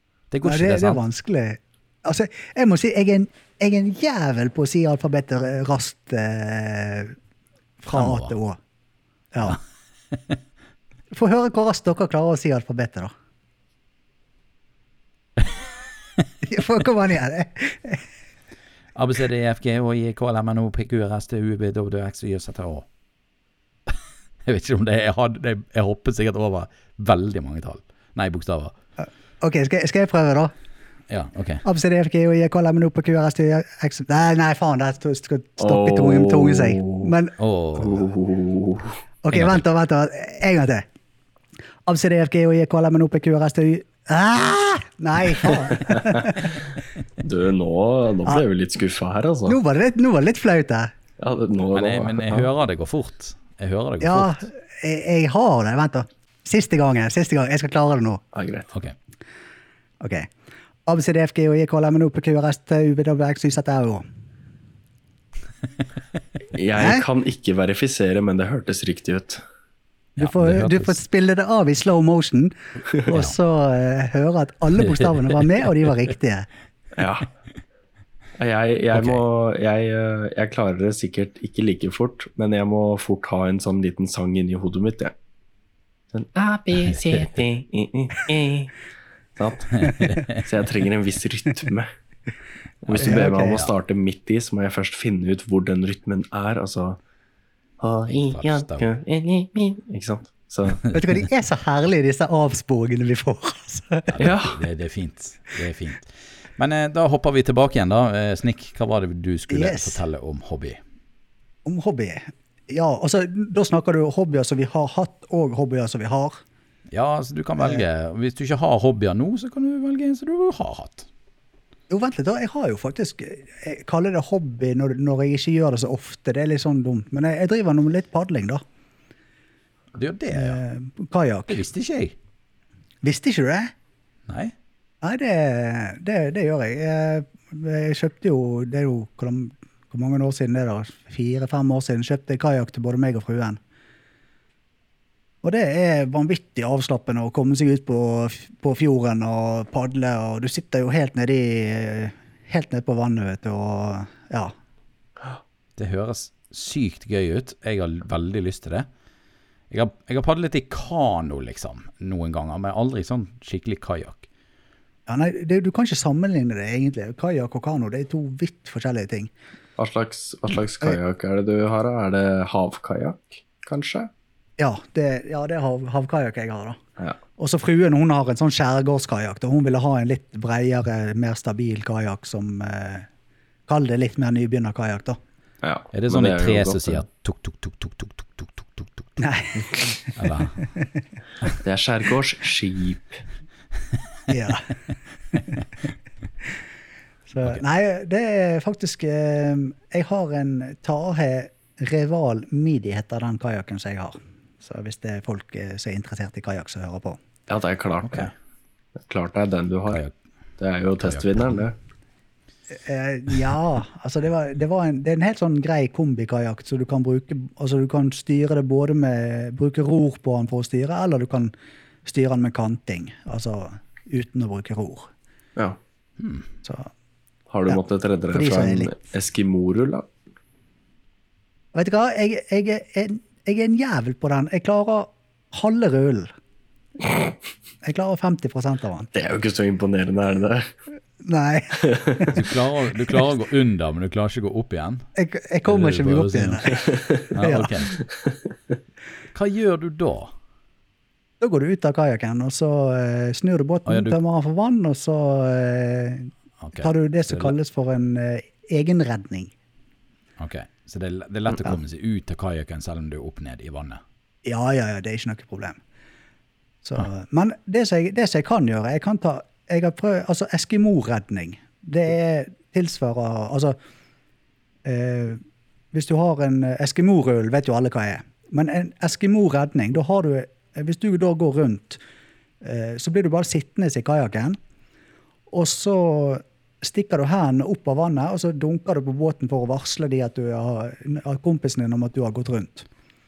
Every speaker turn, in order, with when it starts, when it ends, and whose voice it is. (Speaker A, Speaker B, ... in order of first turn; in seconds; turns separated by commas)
Speaker A: 0.3-1.0, Speaker B: 0.4-7.2, Speaker B: 7.8-8.6, Speaker A: 7.9-8.3, Speaker B: 9.3-9.6, Speaker A: 10.1-10.4, Speaker B: 11.1-13.1, Speaker B: 16.4-18.0, Speaker A: 18.9-22.9, Speaker A: 23.9-28.8, Speaker B: 29.0-30.5, Speaker A: 31.1-31.6, Speaker B: 31.6-37.4, Speaker C: 35.6-37.1, Speaker A: 37.4-38.1, Speaker C: 37.8-39.0, Speaker B: 39.2-40.9, Speaker A: 39.3-39.6, Speaker B: 41.9-46.6, Speaker C: 45.5-46.6, Speaker C: 47.2-49.6, Speaker B: 49.5-50.9, Speaker C: 51.2-52.5, Speaker A: 51.7-54.5, Speaker B: 54.0-58.2, Speaker C: 58.3-58.7, Speaker B: 60.0-60.3, Speaker B: 60.9-64.0, Speaker C: 66.5-69.4, Speaker B: 66.8-67.0, Speaker A: 70.2-71.0, Speaker B: 70.2-76.5, Speaker C: 77.0-77.3, Speaker C: 78.4-85.1, Speaker A: 78.9-79.2, Speaker C: 86.1-88.8, Speaker A: 86.9-87.4, Speaker C: 89.4-91.9, Speaker A: 89.8-90.4, Speaker C: 92.8-97.0, Speaker A: 92.9-93.7, Speaker B: 93.0-93.7, Speaker C: 97.8-100.9, Speaker A: 98.1-98.8, Speaker B: 100.9-104.2, Speaker A: 104.1-110.8, Speaker C: 104.2-104.6, Speaker B: 109.5-110.0, Speaker B: 111.7-116.4, Speaker A: 116.9-121.1, Speaker B: 121.9-128.6, Speaker A: 130.0-130.6, Speaker B: 130.3-131.6, Speaker A: 131.5-132.2, Speaker B: 133.0-133.7, Speaker A: 134.3-134.5, Speaker B: 135.0-143.6, Speaker B: 145.4-154.5, Speaker A: 155.8-158.9, Speaker A: 159.7-164.3, Speaker B: 165.1-169.3, Speaker C: 169.8-174.1, Speaker B: 174.6-176.8, Speaker B: 177.4-183.1, Speaker B: 183.7-185.2, Speaker C: 185.6-187.0, Speaker A: 185.9-189.2, Speaker B: 189.2-191.1, Speaker A: 190.2-190.6, Speaker C: 191.6-193.2, Speaker B: 194.3-194.8, Speaker B: 195.3-195.6, Speaker B: 197.3-207.2, Speaker C: 207.5-208.3, Speaker A: 208.0-208.3, Speaker C: 209.0-210.0, Speaker C: 210.6-211.8, Speaker A: 211.0-211.6, Speaker B: 212.8-221.5, Speaker B: 222.1-225.1, Speaker A: 226.2-226.5, Speaker B: 226.6-226.9, Speaker C: 227.5-230.1, Speaker B: 228.3-229.0, Speaker B: 231.7-236.3, Speaker B: 237.8-239.1, Speaker C: 239.1-240.7, Speaker B: 241.2-242.3, Speaker C: 241.8-242.3, Speaker A: 242.3-245.1, Speaker B: 245.2-247.9, Speaker A: 245.7-246.8, Speaker C: 246.7-247.3, Speaker A: 247.3-247.9, Speaker C: 248.0-248.4, Speaker A: 249.3-250.3, Speaker B: 251.4-259.5, Speaker A: 253.9-254.2, Speaker A: 256.6-257.6, Speaker A: 260.4-264.0, Speaker B: 264.4-265.8, Speaker B: 266.8-273.8, Speaker B: 274.9-275.4, Speaker B: 275.9-282.0, Speaker B: 282.6-284.6, Speaker B: 285.5-292.9